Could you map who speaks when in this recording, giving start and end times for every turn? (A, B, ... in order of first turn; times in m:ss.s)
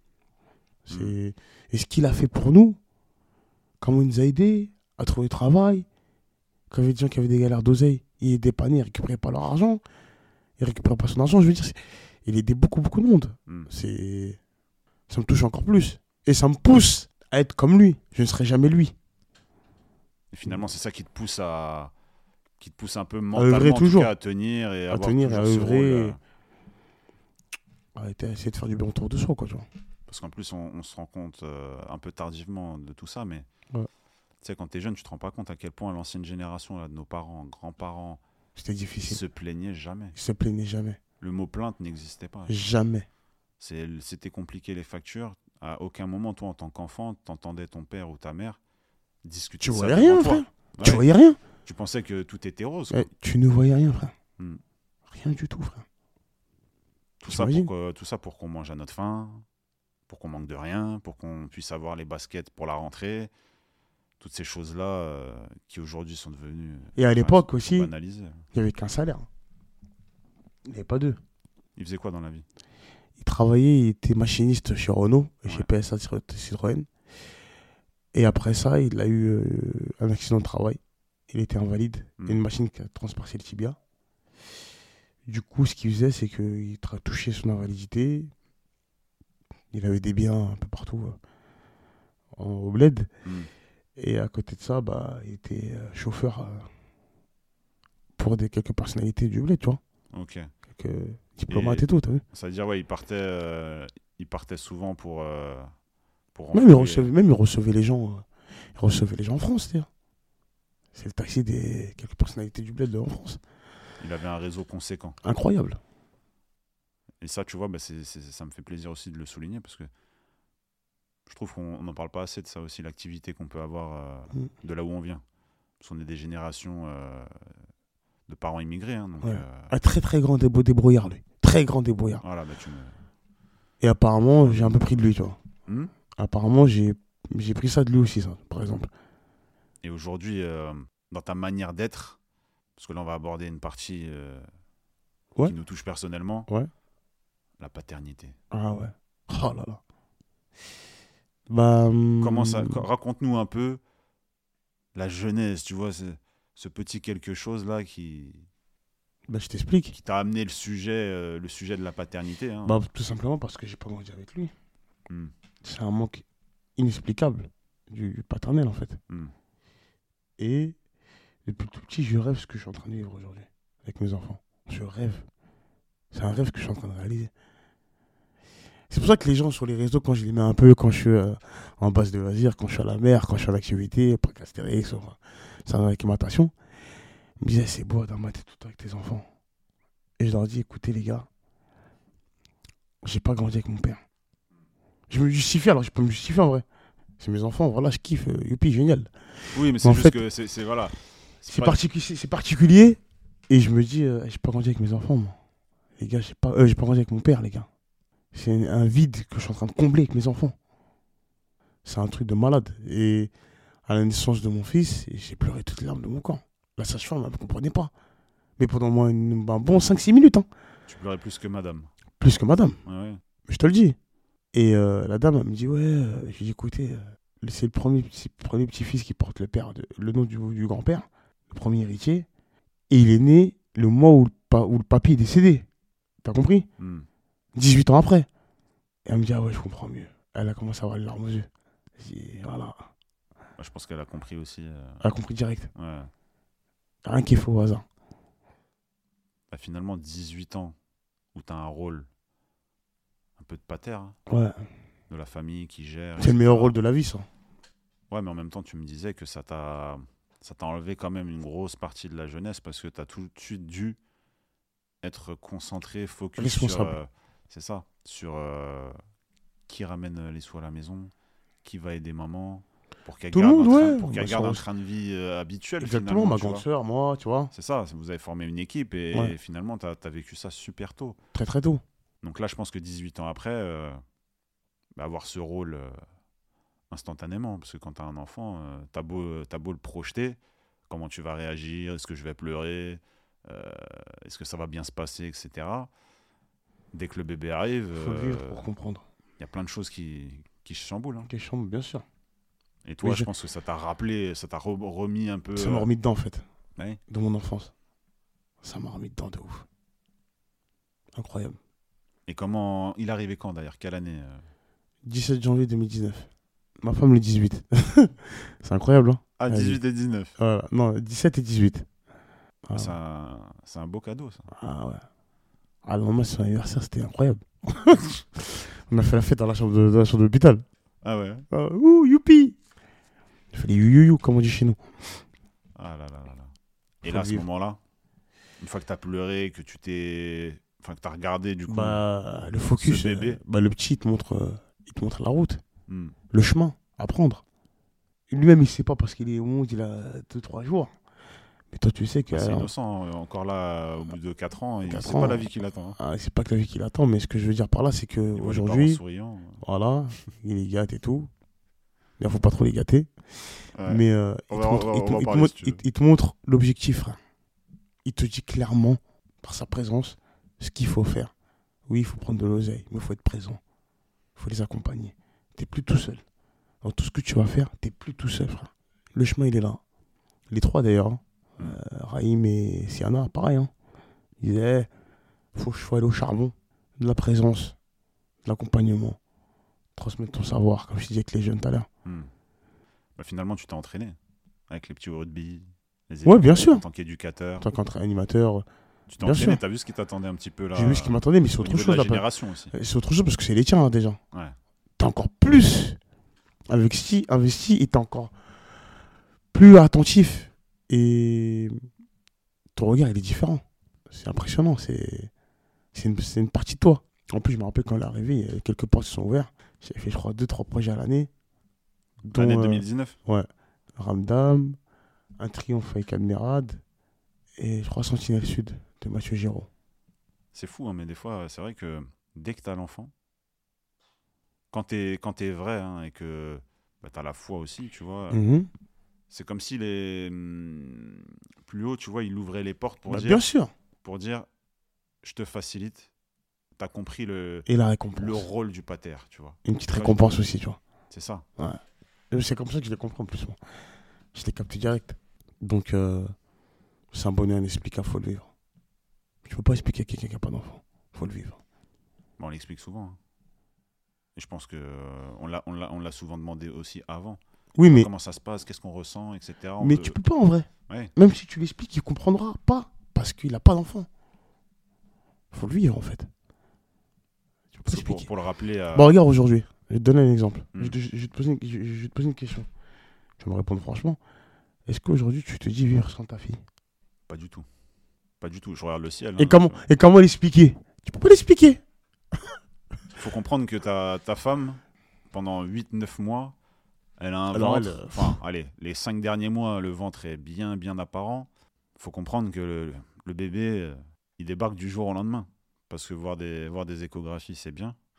0:00.9-0:02.8 A
0:00.9-0:01.2 B
0:03.8-0:05.9 A
0:06.7-0:09.8 A
0:10.6-0:14.4 A
0:15.1-0:19.0 A
0:20.3-0:21.9 B
0:22.6-0:26.2 B
0:23.3-0:24.1 A
0:24.9-0:26.2 A
0:28.0-0:29.7 A
0:30.1-0:33.5 B
0:34.4-0:38.2 B
0:38.6-0:39.2 A
0:39.0-0:40.2 B
0:40.1-0:41.0 A
0:41.2-0:42.6 B
0:42.5-0:43.1 A
0:43.6-0:48.6 B
0:49.2-0:51.0 B
0:49.6-0:51.4 A
0:51.6-0:53.1 B
0:52.9-0:54.1 A
0:55.1-0:55.9 A
0:57.2-0:59.4 B
0:57.3-0:57.7 A
1:00.1-1:03.3 B
1:04.2-1:08.5 B
1:07.0-1:07.9 A
1:08.5-1:09.3 A
1:10.7-1:11.2 A
1:11.8-1:12.5 B
1:13.2-1:16.9 A
1:18.1-1:23.8 A
1:25.3-1:28.3 A
1:29.7-1:31.2 A
1:32.3-1:33.1 A
1:34.0-1:36.7 A
1:38.2-1:39.8 A
1:40.1-1:40.5 B
1:40.7-1:42.2 A
1:41.5-1:45.7 B
1:46.3-1:47.1 B
1:46.5-1:49.9 A
1:50.9-1:53.4 A
1:54.0-1:55.2 B
1:55.2-1:55.8 A
1:57.2-1:59.9 B
2:01.3-2:05.2 B
2:05.8-2:07.6 B
2:08.3-2:09.7 B
2:09.2-2:12.2 A
2:12.2-2:13.0 B
2:13.8-2:15.4 A
2:14.4-2:14.9 B
2:15.7-2:15.9 B
2:16.2-2:18.9 A
2:19.8-2:22.2 B
2:22.8-2:24.5 B
2:25.4-2:26.5 B
2:27.6-2:28.4 B
2:28.5-2:29.8 A
2:31.5-2:32.9 A
2:32.2-2:33.8 B
2:35.0-2:38.5 B
2:39.3-2:39.9 A
2:39.9-2:42.8 B
2:42.6-2:44.5 A
2:45.6-2:46.2 A
2:46.8-2:49.0 A
2:50.4-2:50.8 A
2:51.4-2:55.3 A
2:56.1-2:57.3 A
2:58.9-3:06.5 A
3:07.4-3:09.3 A
3:10.2-3:11.3 A
3:13.0-3:14.0 A
3:15.1-3:16.6 A
3:17.2-3:20.2 A
3:19.5-3:21.8 B
3:21.5-3:25.4 A
3:26.0-3:27.7 A
3:28.3-3:30.6 A
3:31.8-3:33.3 A
3:33.9-3:37.9 A
3:38.6-3:40.5 A
3:40.9-3:41.9 B
3:42.2-3:42.8 A
3:42.8-3:43.2 B
3:43.5-3:44.0 A
3:44.5-3:52.3 A
3:52.9-3:55.7 A
3:56.2-3:56.7 A
3:56.8-3:57.1 B
3:57.6-3:58.3 A
3:59.1-4:02.9 A
4:03.6-4:05.0 B
4:05.0-4:05.7 A
4:05.8-4:06.1 B
4:07.0-4:07.9 A
4:09.5-4:10.8 B
4:11.3-4:12.1 B
4:13.4-4:14.2 B
4:14.3-4:14.7 A
4:15.1-4:16.8 B
4:16.2-4:17.3 A
4:18.1-4:24.0 B
4:25.0-4:29.0 B
4:26.4-4:27.0 A
4:29.7-4:31.1 B
4:31.6-4:36.7 B
4:33.3-4:34.6 A
4:35.8-4:37.5 A
4:37.5-4:41.2 B
4:41.3-4:41.8 A
4:42.2-4:44.0 B
4:45.0-4:46.0 B
4:46.9-4:55.9 B
4:56.9-4:58.7 B
4:57.9-4:59.1 A
4:59.4-5:01.3 B
5:01.2-5:02.0 A
5:02.8-5:05.9 B
5:03.0-5:03.3 A
5:05.6-5:06.4 A
5:07.1-5:07.7 A
5:08.6-5:09.7 A
5:11.1-5:11.6 A
5:12.3-5:14.5 B
5:15.0-5:16.3 A
5:16.8-5:19.8 A
5:19.4-5:20.4 B
5:20.4-5:21.9 A
5:22.6-5:22.9 A
5:22.7-5:24.5 B
5:24.5-5:25.0 A
5:25.8-5:30.6 A
5:31.0-5:31.5 B
5:31.5-5:32.6 A
5:33.5-5:35.2 A
5:35.8-5:36.5 B
5:37.0-5:37.8 B
5:37.0-5:37.4 A
5:38.6-5:42.0 B
5:41.7-5:45.6 A
5:42.8-5:43.4 B
5:45.9-5:46.2 B
5:46.3-5:47.4 A
5:48.3-5:50.9 A
5:51.7-5:52.7 A
5:52.3-5:56.0 B
5:54.9-5:59.0 A
5:58.4-5:59.6 B
5:59.6-6:01.3 A
6:02.2-6:07.2 A
6:03.7-6:05.8 B
6:08.0-6:11.3 A
6:11.9-6:13.6 A
6:14.4-6:16.2 A
6:16.8-6:19.8 A
6:20.5-6:23.7 A
6:24.4-6:24.9 A
6:25.6-6:27.8 A
6:28.4-6:29.2 A
6:30.0-6:31.9 A
6:32.0-6:32.3 B
6:33.2-6:34.2 B
6:34.7-6:37.7 B
6:36.2-6:36.8 A
6:37.6-6:38.7 A
6:39.1-6:42.7 B
6:39.2-6:39.6 A
6:40.7-6:44.2 A
6:45.0-6:46.0 A
6:46.7-6:48.4 A
6:49.5-6:51.8 A
6:52.8-6:55.3 A
6:55.9-7:01.3 A
7:02.2-7:04.8 A
7:02.3-7:03.2 B
7:05.4-7:06.8 A
7:07.6-7:09.7 A
7:10.5-7:13.1 B
7:14.7-7:18.4 B
7:18.3-7:18.7 A
7:19.3-7:23.4 B
7:23.1-7:23.7 A
7:24.0-7:24.5 B
7:25.2-7:26.1 B
7:26.8-7:30.4 B
7:27.7-7:28.5 A
7:29.6-7:30.8 A
7:31.1-7:31.4 B
7:32.3-7:33.6 A
7:34.3-7:36.3 A
7:37.1-7:38.5 A
7:39.4-7:41.6 A
7:42.4-7:43.2 B
7:44.4-7:50.2 B
7:47.8-7:48.1 A
7:49.8-7:54.1 A
7:55.5-7:56.3 A
7:57.8-7:59.2 B
7:57.8-7:58.3 A
7:58.9-8:02.7 A
8:03.4-8:04.2 A
8:04.9-8:06.6 A
8:07.3-8:07.7 B
8:08.4-8:09.8 B
8:09.4-8:11.8 A
8:13.2-8:16.6 B
8:17.2-8:28.0 B
8:17.5-8:18.4 A